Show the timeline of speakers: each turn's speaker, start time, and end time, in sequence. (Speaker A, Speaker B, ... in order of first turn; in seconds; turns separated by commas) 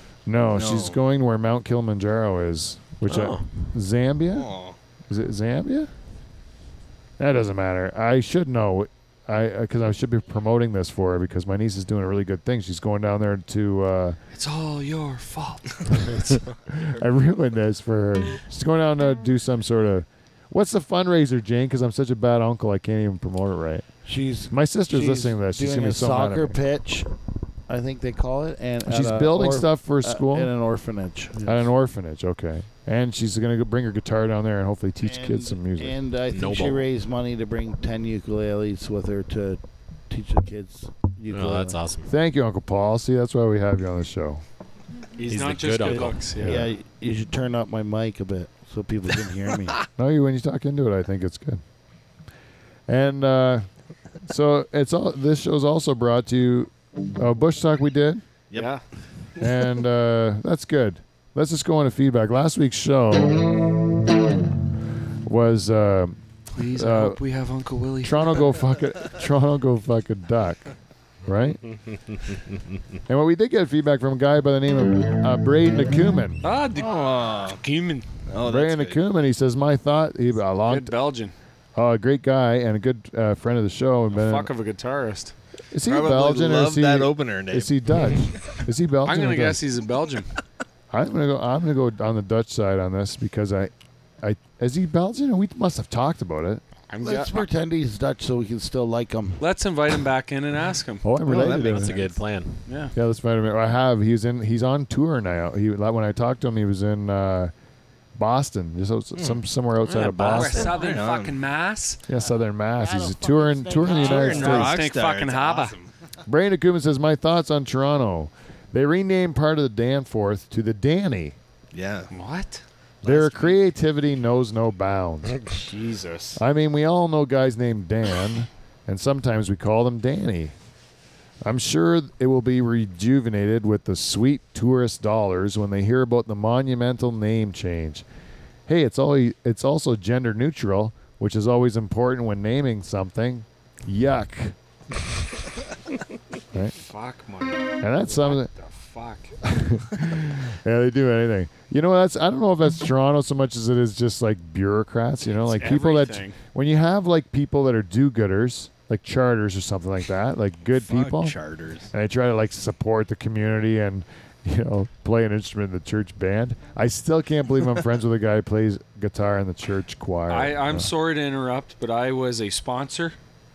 Speaker A: 0.2-4.5, Speaker B: 0.5-1.0, Speaker C: 3.0-3.5, Speaker B: 4.3-4.8, Speaker A: 5.1-5.9, Speaker A: 7.2-14.2, Speaker D: 14.3-16.4, Speaker A: 16.7-23.8, Speaker E: 24.1-27.1, Speaker A: 24.5-26.6, Speaker E: 27.7-31.6, Speaker A: 28.8-30.5, Speaker A: 31.4-36.0, Speaker E: 35.0-41.8, Speaker C: 36.3-36.9, Speaker C: 41.3-42.1, Speaker A: 42.1-44.4, Speaker D: 45.2-46.6, Speaker C: 45.2-46.5, Speaker E: 46.4-49.8, Speaker A: 50.0-51.6, Speaker A: 52.9-53.6, Speaker A: 54.2-58.2, Speaker D: 58.5-58.8, Speaker A: 59.4-63.5, Speaker A: 65.2-67.2, Speaker D: 66.5-68.6, Speaker A: 68.0-70.7, Speaker A: 71.2-71.6, Speaker C: 72.1-72.4, Speaker A: 73.1-76.4, Speaker D: 76.4-78.1, Speaker B: 76.8-77.6, Speaker B: 78.3-79.0, Speaker A: 78.4-80.9, Speaker D: 80.7-81.3, Speaker A: 81.8-84.5, Speaker D: 84.1-85.3, Speaker A: 85.7-89.6, Speaker B: 85.8-87.7, Speaker D: 89.0-90.3, Speaker A: 90.9-93.7, Speaker A: 94.2-96.6, Speaker D: 96.9-97.5, Speaker E: 97.0-99.4, Speaker D: 99.4-101.2, Speaker A: 101.0-101.9, Speaker B: 101.2-102.1, Speaker C: 101.4-102.6, Speaker D: 102.7-102.9, Speaker A: 102.9-107.5, Speaker A: 108.2-110.8, Speaker C: 109.8-110.7, Speaker D: 110.0-112.0, Speaker B: 110.7-111.3, Speaker A: 112.1-114.8, Speaker E: 112.8-114.6, Speaker D: 113.8-115.8, Speaker B: 114.0-115.9, Speaker A: 116.3-121.4, Speaker B: 121.7-122.1, Speaker D: 122.1-122.6, Speaker A: 123.0-125.4, Speaker D: 125.4-126.4, Speaker A: 126.3-130.5, Speaker A: 131.4-138.0, Speaker A: 138.7-144.6, Speaker D: 146.7-149.4, Speaker A: 147.8-148.5, Speaker A: 149.4-161.3, Speaker D: 155.4-156.4, Speaker B: 160.8-161.9, Speaker A: 161.9-170.9, Speaker D: 170.3-173.2